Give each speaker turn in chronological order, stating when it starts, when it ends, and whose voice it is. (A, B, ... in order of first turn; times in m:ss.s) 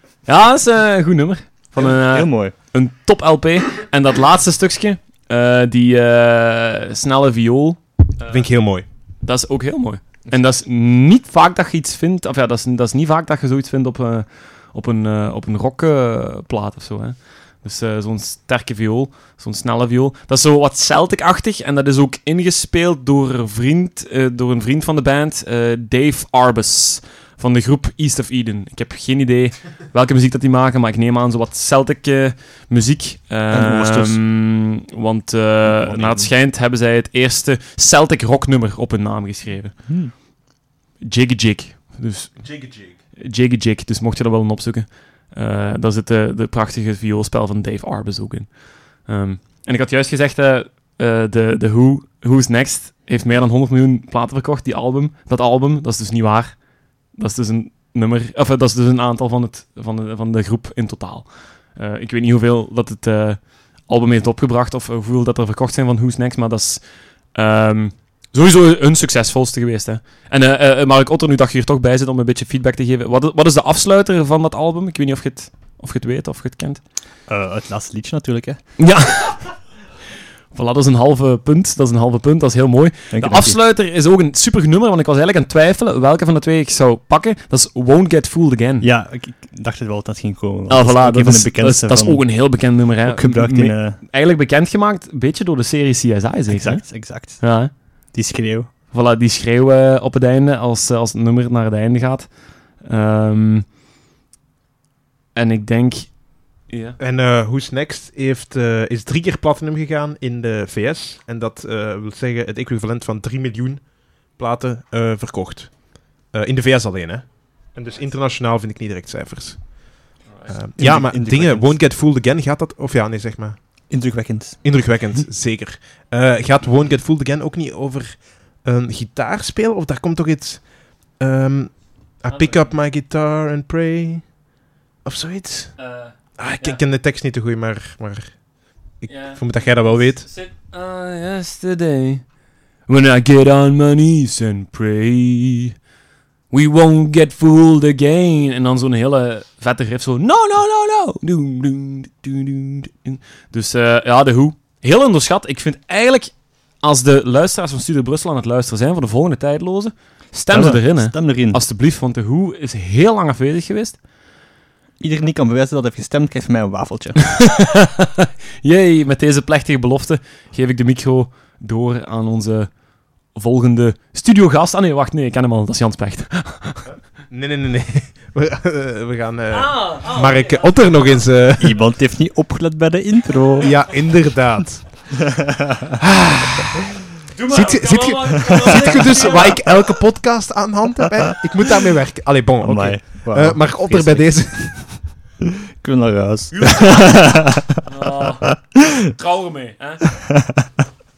0:00.2-0:08.4 A
0:01.8-0:02.5 B
0:08.3-0:08.8 C
0:09.2-0:39.8 A
0:33.5-0:34.2 B
0:35.6-0:36.3 B
0:39.9-0:40.1 B
0:41.0-0:42.4 A
0:42.4-0:42.9 C
0:43.2-0:56.6 A
0:57.1-1:16.8 A
1:17.3-1:18.6 B
1:18.8-1:19.5 A
1:20.5-1:28.9 A
1:23.1-1:23.6 B
1:28.8-1:32.3 B
1:30.7-1:36.9 A
1:33.0-1:34.0 B
1:36.5-1:37.5 B
1:37.4-1:37.7 A
1:38.1-1:38.7 B
1:38.9-1:43.6 A
1:45.3-1:47.0 A
1:47.0-1:55.7 C
1:56.3-1:59.7 C
2:00.5-2:03.6 C
2:00.8-2:01.8 B
2:03.9-2:04.6 B
2:04.6-2:10.6 C
2:11.2-2:14.2 C
2:12.3-2:12.7 A
2:15.0-2:15.7 C
2:15.8-2:16.8 A
2:16.4-2:18.3 C
2:19.0-2:20.3 C
2:19.1-2:19.4 A
2:20.2-2:22.2 A
2:22.9-2:25.7 A
2:26.5-2:44.0 A
2:40.5-2:41.6 B
2:45.0-2:47.2 B
2:47.2-2:52.7 A
2:53.3-2:56.9 A
2:57.3-3:01.8 C
2:59.5-3:00.8 A
3:01.6-3:03.9 B
3:03.6-3:04.9 C
3:05.1-3:06.0 B
3:06.0-3:06.7 C
3:07.3-3:09.6 A
3:07.5-3:15.0 C
3:08.6-3:09.0 B
3:12.6-3:14.4 B
3:15.4-3:17.8 B
3:16.5-3:17.1 A
3:17.8-3:18.6 A
3:19.1-3:20.0 A
3:20.2-3:20.8 B